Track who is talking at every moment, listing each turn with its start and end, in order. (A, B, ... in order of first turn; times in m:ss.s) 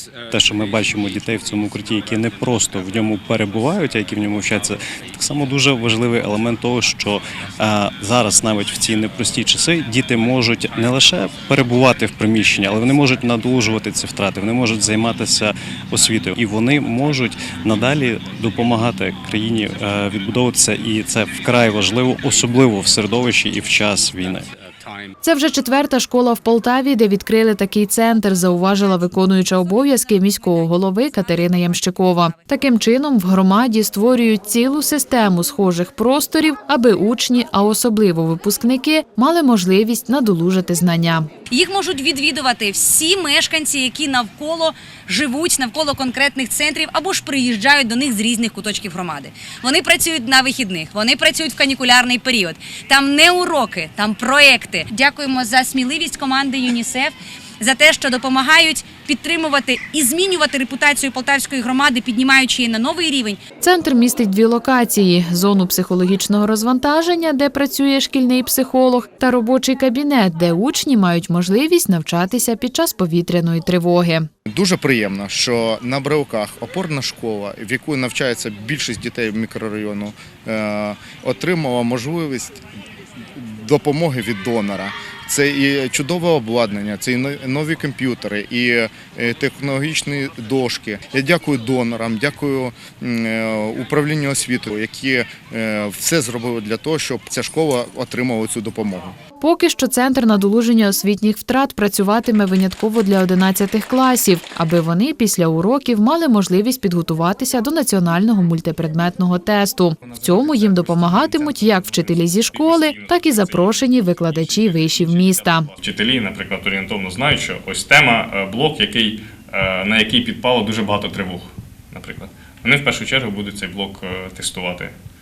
0:00.3-0:24.5 A
0:25.2-0:41.3 B
0:41.5-1:03.4 C
1:03.6-1:14.3 B
1:14.5-1:22.6 D
1:23.3-1:39.2 D
1:39.4-1:55.7 B
1:50.1-2:04.9 E